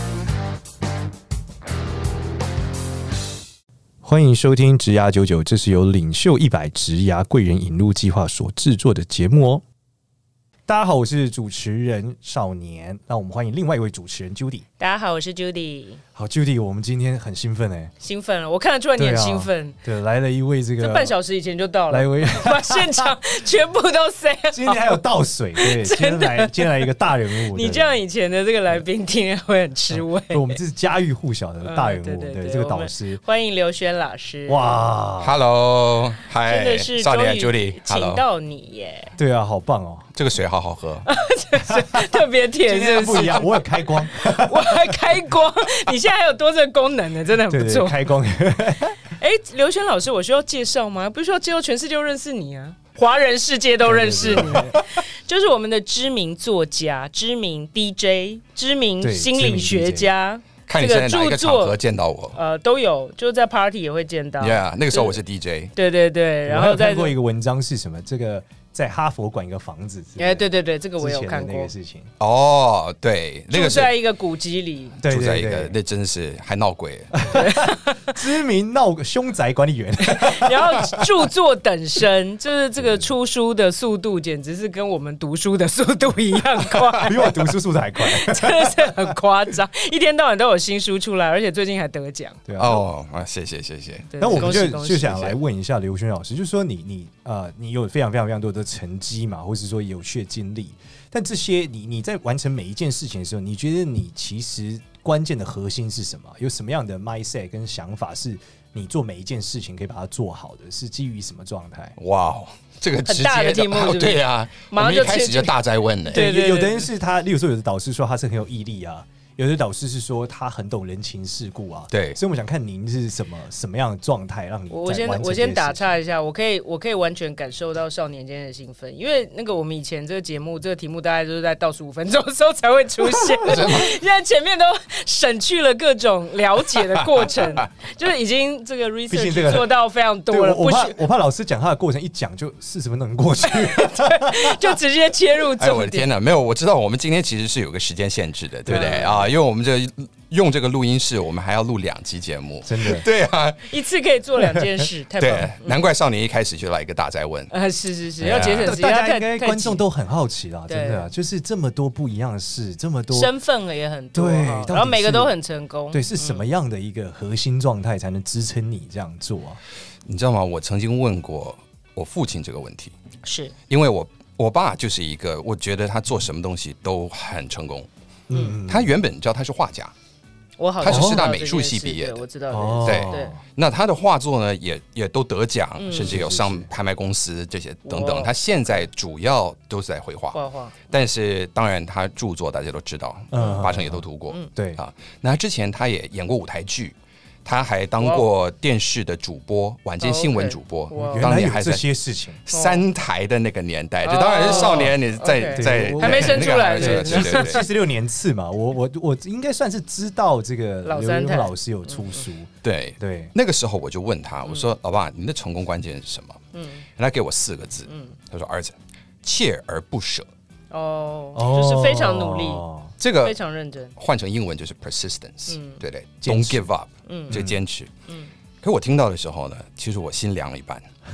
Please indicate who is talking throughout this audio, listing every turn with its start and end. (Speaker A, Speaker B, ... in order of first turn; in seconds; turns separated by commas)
Speaker A: 4.0-9.6, Speaker A: 10.7-14.7, Speaker B: 14.8-16.0, Speaker A: 16.2-17.9, Speaker B: 18.0-19.8, Speaker A: 19.0-21.1, Speaker B: 20.8-25.0, Speaker A: 21.9-23.1, Speaker A: 24.5-28.0, Speaker B: 25.6-30.6, Speaker A: 29.9-33.2, Speaker B: 31.6-34.9, Speaker A: 34.5-35.4, Speaker C: 35.2-38.2, Speaker B: 36.5-39.1, Speaker A: 39.2-40.1, Speaker C: 40.1-41.1, Speaker B: 41.1-48.2, Speaker A: 41.6-45.1, Speaker A: 47.5-49.0, Speaker B: 49.1-61.8, Speaker A: 53.9-54.8, Speaker A: 59.0-60.1, Speaker C: 60.7-62.4, Speaker B: 62.3-65.2, Speaker C: 64.4-65.7, Speaker B: 65.8-67.2, Speaker A: 66.5-70.5, Speaker B: 70.2-71.7, Speaker A: 71.0-72.1, Speaker C: 72.2-74.0, Speaker B: 73.5-75.0, Speaker C: 75.0-77.2, Speaker A: 75.0-75.8, Speaker A: 77.1-81.0, Speaker B: 77.3-78.2, Speaker B: 80.0-92.4, Speaker A: 87.0-89.0, Speaker A: 92.5-92.8, Speaker C: 92.6-94.7, Speaker B: 94.1-95.3, Speaker A: 94.2-112.0, Speaker C: 112.0-116.3, Speaker B: 113.1-116.9, Speaker A: 116.1-126.0, Speaker C: 121.9-122.2, Speaker B: 124.7-141.0, Speaker C: 133.4-133.9, Speaker C: 137.0-137.6, Speaker A: 139.1-139.8, Speaker A: 140.3-144.7, Speaker B: 143.4-146.1, Speaker C: 145.6-153.7, Speaker A: 148.7-149.1, Speaker B: 148.7-149.2, Speaker A: 152.7-153.1, Speaker B: 153.7-155.9, Speaker A: 154.5-154.8, Speaker C: 155.2-157.5, Speaker B: 157.5-159.8, Speaker C: 158.2-158.8, Speaker A: 158.6-163.3, Speaker B: 160.7-161.1, Speaker B: 163.1-166.5, Speaker A: 164.1-165.3, Speaker A: 165.9-169.6, Speaker C: 170.1-172.9, Speaker B: 173.2-173.6, Speaker C: 173.7-177.9, Speaker A: 178.3-178.9, Speaker B: 178.3-178.6, Speaker C: 178.7-179.9, Speaker B: 180.6-183.4, Speaker C: 180.8-182.3, Speaker A: 180.9-181.3, Speaker A: 182.5-183.4, Speaker C: 182.8-201.8, Speaker B: 185.8-186.3, Speaker A: 186.0-186.7, Speaker B: 187.8-188.8, Speaker B: 190.3-190.9, Speaker A: 193.3-194.0, Speaker B: 193.4-193.7, Speaker A: 194.6-194.8, Speaker B: 198.0-198.3, Speaker B: 200.0-201.4, Speaker A: 200.9-202.4, Speaker C: 202.5-207.7, Speaker B: 202.5-202.8, Speaker B: 204.0-207.7, Speaker A: 204.4-205.0, Speaker A: 205.5-213.3, Speaker B: 210.8-212.2, Speaker C: 212.6-216.4, Speaker B: 216.5-216.8, Speaker C: 217.0-220.3, Speaker B: 217.9-218.2, Speaker B: 220.7-222.6, Speaker A: 221.3-223.0, Speaker C: 223.0-223.4, Speaker B: 223.2-223.9, Speaker C: 224.0-227.9, Speaker B: 225.5-225.8, Speaker A: 226.2-226.7, Speaker B: 227.1-227.4, Speaker A: 227.3-227.6, Speaker C: 228.6-230.9